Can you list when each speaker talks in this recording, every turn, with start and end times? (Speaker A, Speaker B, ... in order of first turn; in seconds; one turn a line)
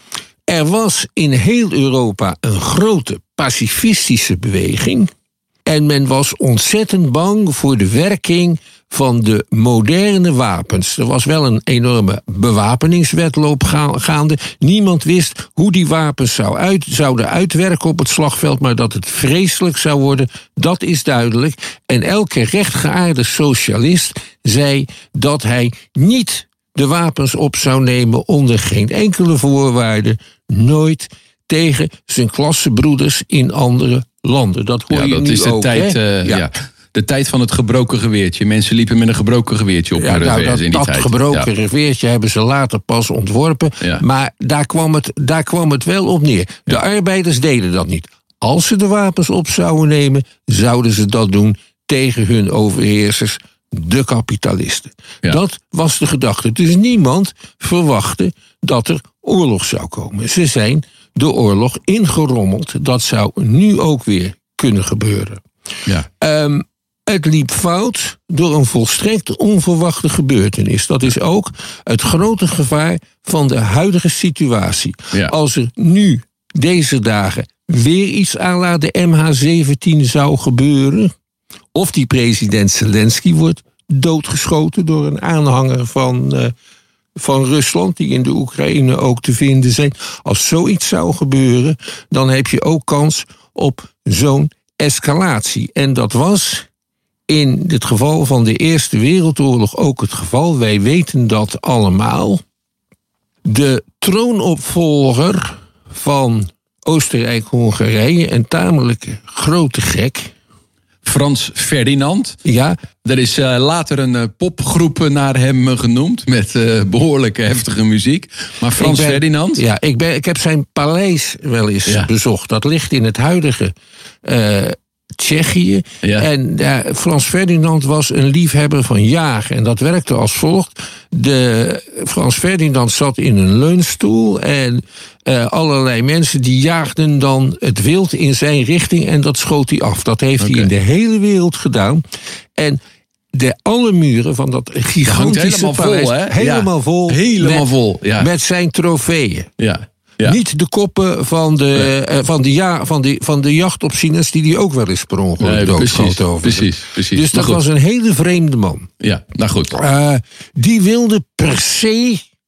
Speaker A: 0.5-5.1
Speaker A: 5.7-36.5
Speaker B: 34.9-41.5
Speaker A: 40.0-65.4
Speaker A: 66.2-81.1
Speaker A: 81.7-86.5
Speaker A: 87.2-96.7
Speaker A: 97.3-102.4
Speaker A: 103.5-110.3
Speaker B: 111.0-112.4
Speaker A: 112.5-112.8
Speaker B: 113.0-119.6
Speaker A: 118.8-123.7
Speaker A: 124.2-142.0
Speaker B: 140.4-140.7
Speaker A: 143.3-149.5
Speaker B: 145.1-148.3
Speaker B: 149.6-150.4
Speaker A: 150.2-158.9
Speaker B: 155.4-157.6
Speaker B: 159.0-159.7
Speaker A: 159.7-162.2